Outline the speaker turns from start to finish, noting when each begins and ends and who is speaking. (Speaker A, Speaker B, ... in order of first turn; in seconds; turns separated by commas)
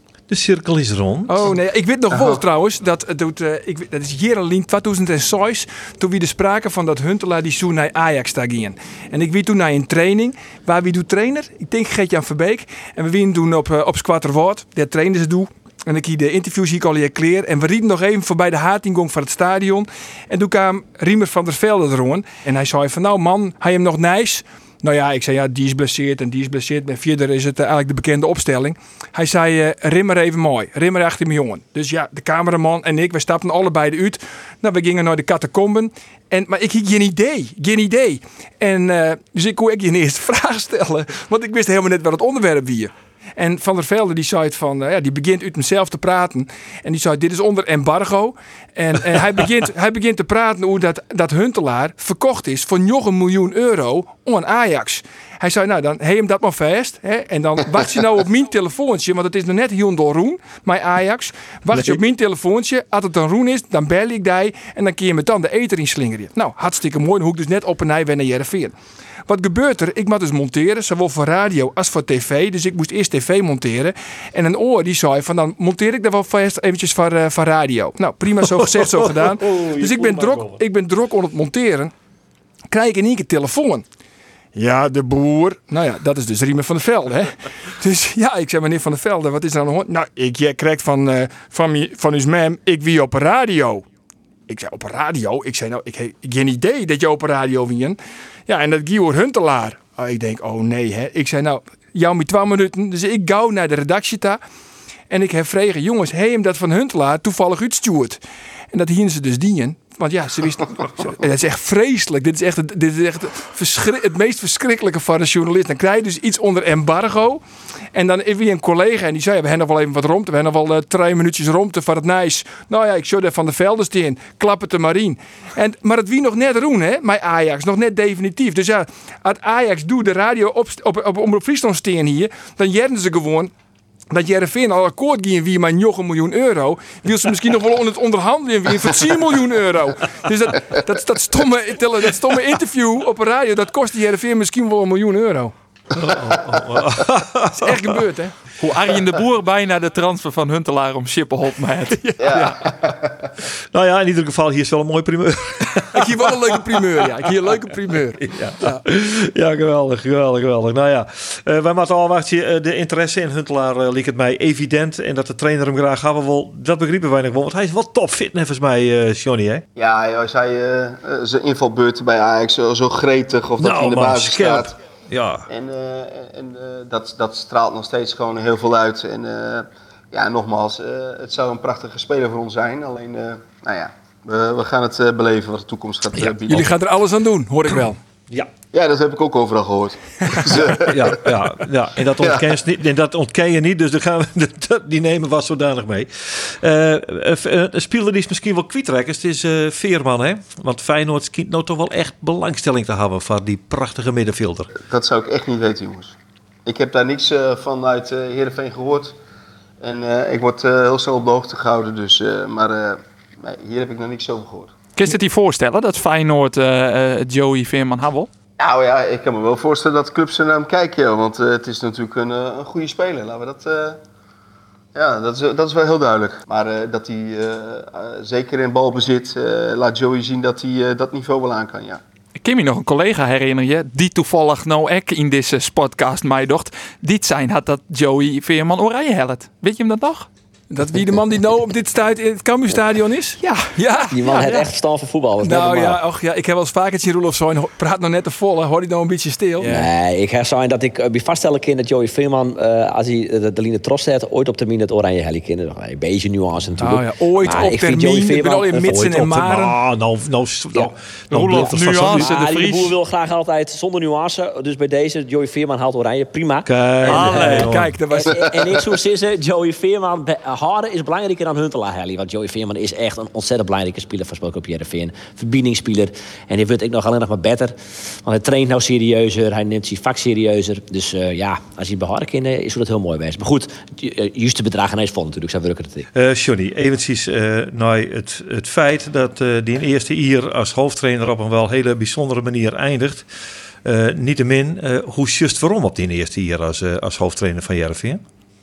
Speaker A: 0.3-1.5, Speaker B: 1.3-68.7, Speaker B: 69.3-81.9, Speaker A: 78.3-80.6, Speaker B: 82.7-83.8, Speaker B: 84.5-93.8, Speaker B: 94.5-104.4, Speaker B: 105.1-108.2, Speaker B: 108.7-117.4, Speaker B: 117.9-133.5, Speaker B: 134.1-145.5, Speaker A: 145.9-147.9, Speaker B: 147.6-148.3, Speaker C: 148.6-152.6, Speaker D: 152.2-153.1, Speaker A: 153.7-169.6, Speaker B: 155.9-158.8, Speaker D: 169.8-174.7, Speaker A: 173.6-175.5, Speaker D: 175.5-186.7, Speaker B: 186.5-188.0, Speaker D: 188.7-191.3, Speaker A: 190.6-204.7, Speaker D: 192.2-192.6, Speaker D: 204.9-206.1, Speaker D: 206.7-209.2, Speaker D: 209.8-214.7, Speaker C: 214.9-218.3, Speaker D: 218.6-224.0, Speaker D: 224.9-232.0, Speaker C: 232.3-240.3, Speaker B: 240.7-244.5, Speaker C: 243.4-243.7, Speaker E: 244.1-246.0, Speaker C: 244.2-244.6, Speaker B: 245.4-249.8, Speaker E: 249.7-259.0, Speaker B: 256.8-259.8, Speaker A: 258.8-262.3, Speaker E: 260.7-286.1, Speaker C: 261.3-263.0, Speaker A: 266.6-267.9, Speaker B: 267.1-268.6, Speaker D: 268.5-268.8, Speaker A: 286.1-293.3, Speaker A: 293.8-298.2